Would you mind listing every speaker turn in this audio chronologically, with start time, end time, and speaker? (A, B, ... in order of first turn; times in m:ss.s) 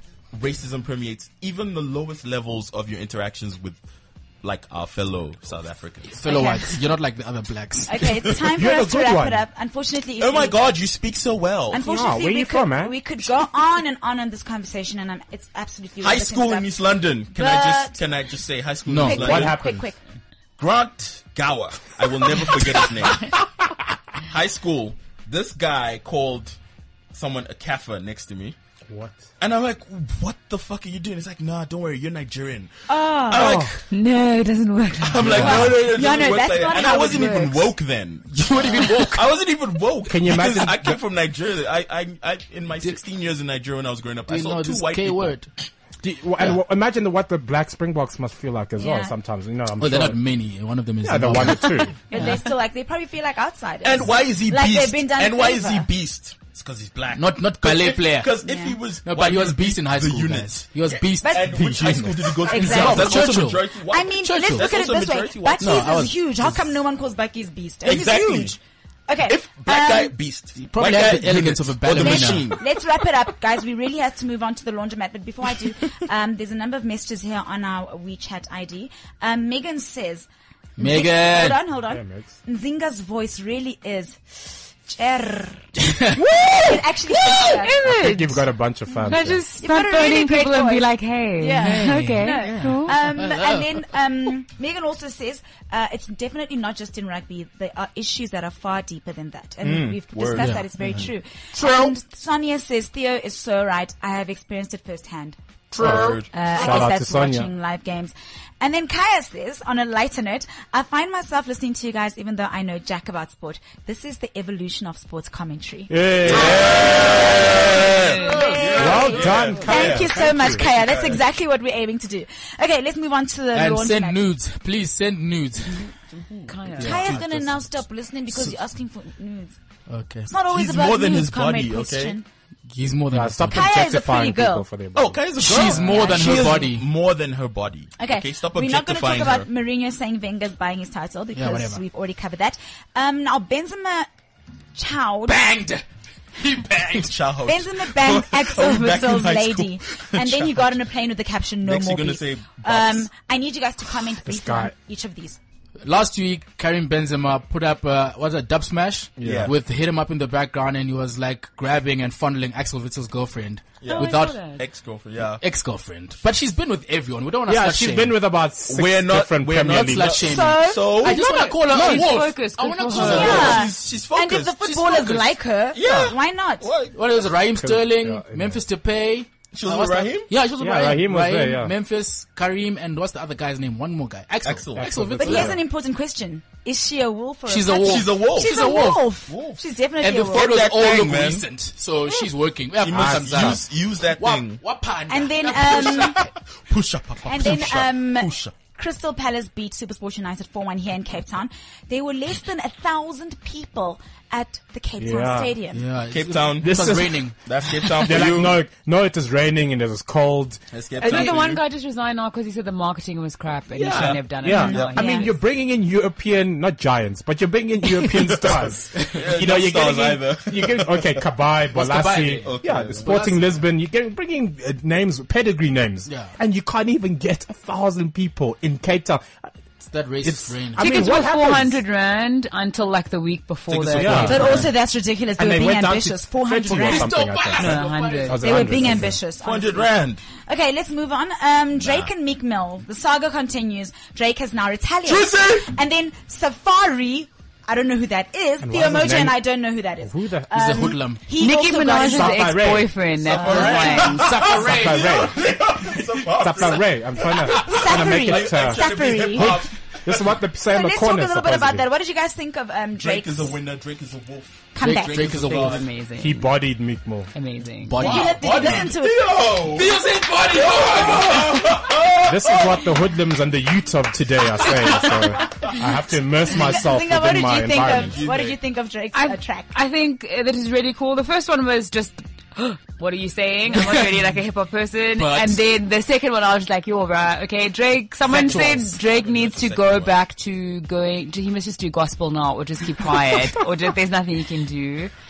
0:00.3-0:03.8 A
0:04.4-0:06.2 A
0:06.1-0:08.3 B
0:06.3-0:06.8 C
0:07.9-0:10.6 C
0:08.6-0:09.4 D
0:10.2-0:11.8 A
0:11.7-0:16.7 C
0:11.8-0:13.0 D
0:16.0-0:19.6 A
0:17.3-0:18.0 C
0:18.9-0:19.4 B
0:19.0-0:20.0 C
0:19.2-0:19.9 D
0:20.6-0:23.4 A
0:24.2-0:26.6 A
0:27.1-0:28.6 A
0:28.9-0:29.2 D
0:29.4-0:32.7 A
0:32.9-0:33.7 C
0:33.3-0:33.8 A
0:33.3-0:33.7 D
0:33.9-0:35.6 E
0:35.0-0:45.4 A
0:35.2-0:35.8 B
0:35.3-0:37.7 C
0:38.3-0:39.3 B
0:40.1-0:41.0 D
0:44.3-0:45.5 B
0:46.0-0:50.2 D
0:48.8-0:49.1 C
0:49.8-0:52.0 B
0:51.0-0:51.9 D
0:52.1-0:55.9 C
0:52.1-0:52.4 E
0:53.8-1:06.0 A
0:57.1-0:58.4 B
0:58.4-0:58.8 C
0:59.0-1:02.0 B
1:01.2-1:01.6 C
1:01.5-1:02.4 D
1:02.5-1:10.1 C
1:02.5-1:04.7 B
1:05.6-1:06.7 B
1:07.8-1:08.6 A
1:09.3-1:12.6 A
1:10.6-1:12.6 B
1:12.0-1:20.3 C
1:20.8-1:21.6 B
1:20.8-1:25.7 C
1:21.9-1:22.4 D
1:25.9-1:26.8 B
1:26.6-1:27.9 C
1:27.3-1:28.4 E
1:27.8-1:29.4 D
1:29.0-1:33.0 E
1:29.6-2:04.3 C
1:31.6-1:33.7 B
1:39.6-1:40.0 D
1:39.7-1:40.6 A
1:40.3-1:41.1 B
1:45.7-1:46.3 A
1:45.8-1:47.5 D
1:55.9-1:57.4 D
1:56.2-2:01.2 A
1:57.8-1:59.6 E
1:58.8-2:00.7 D
2:03.5-2:05.9 B
2:06.2-2:07.5 A
2:06.5-2:07.1 E
2:06.8-2:07.3 B
2:06.8-2:09.6 C
2:09.9-2:10.3 B
2:10.3-2:12.2 C
2:10.5-2:12.2 A
2:12.7-2:13.7 B
2:13.1-2:15.2 D
2:13.5-2:14.7 C
2:15.0-2:19.5 A
2:15.4-2:16.7 C
2:15.4-2:16.9 B
2:18.0-2:24.1 C
2:21.3-2:21.8 B
2:24.7-2:25.4 C
2:25.3-2:27.1 B
2:26.9-2:30.7 A
2:27.5-2:35.4 C
2:31.6-2:33.1 A
2:34.2-2:34.7 D
2:35.8-2:44.4 B
2:39.2-2:39.5 D
2:39.2-2:39.5 A
2:43.8-2:45.4 A
2:43.9-2:44.7 E
2:45.4-2:48.2 B
2:47.5-2:50.3 D
2:48.7-2:51.5 A
2:49.4-2:53.7 B
2:50.2-2:51.0 C
2:51.2-2:53.7 E
2:51.7-2:52.1 D
2:52.9-2:54.6 A
2:52.9-2:56.7 C
2:54.6-2:55.4 B
2:55.7-2:57.0 A
2:56.9-3:05.6 B
2:57.5-2:58.6 D
2:59.5-3:00.3 A
3:00.6-3:01.7 D
3:04.4-3:04.9 A
3:04.8-3:05.6 D
3:05.2-3:10.6 C
3:07.5-3:09.2 B
3:07.8-3:09.6 A
3:10.0-3:16.3 B
3:10.2-3:11.5 A
3:12.8-3:14.6 A
3:12.9-3:13.6 D
3:15.1-3:16.2 C
3:15.5-3:18.5 A
3:17.3-3:25.8 C
3:25.0-3:25.5 D
3:25.7-3:27.4 B
3:26.1-3:28.6 A
3:26.6-3:27.3 D
3:28.0-3:31.4 D
3:30.7-3:31.6 A
3:31.0-3:35.3 E
3:33.7-3:34.1 B
3:33.9-3:35.0 A
3:34.4-3:49.4 D
3:34.6-3:35.3 C
3:39.0-3:41.2 A
3:41.7-3:43.4 B
3:42.4-3:43.3 A
3:46.1-3:46.3 B
3:49.9-3:51.2 B
3:50.2-3:51.8 D
3:50.8-3:54.6 E
3:53.7-3:54.7 A
3:54.0-3:54.7 D
3:54.1-3:54.4 B
3:54.3-3:57.2 C
3:55.4-3:59.2 D
3:56.7-3:59.1 B
3:57.6-3:58.9 E
3:58.4-4:14.2 C
3:59.4-4:00.2 A
4:01.8-4:02.1 A
4:05.0-4:05.7 A
4:08.6-4:09.4 D
4:10.0-4:11.0 D
4:10.5-4:11.3 B
4:11.4-4:14.6 E
4:12.0-4:13.0 D
4:13.2-4:20.4 A
4:13.3-4:15.4 B
4:14.5-4:15.5 D
4:16.4-4:21.9 D
4:17.4-4:19.6 C
4:20.6-4:23.6 C
4:23.0-4:25.9 A
4:24.7-4:25.5 C
4:24.8-4:25.8 B
4:25.4-4:26.5 E
4:26.2-4:27.3 D
4:27.3-4:28.4 E
4:27.8-4:28.9 B
4:28.0-4:29.4 C
4:28.4-4:32.8 A
4:29.6-4:31.9 B
4:32.2-4:38.2 D
4:34.6-4:35.7 A
4:36.6-4:39.7 C
4:37.8-4:38.6 A
4:39.1-4:55.1 E
4:43.7-4:44.3 B
4:45.2-4:45.6 B
4:48.3-4:49.0 B
4:48.3-4:50.2 A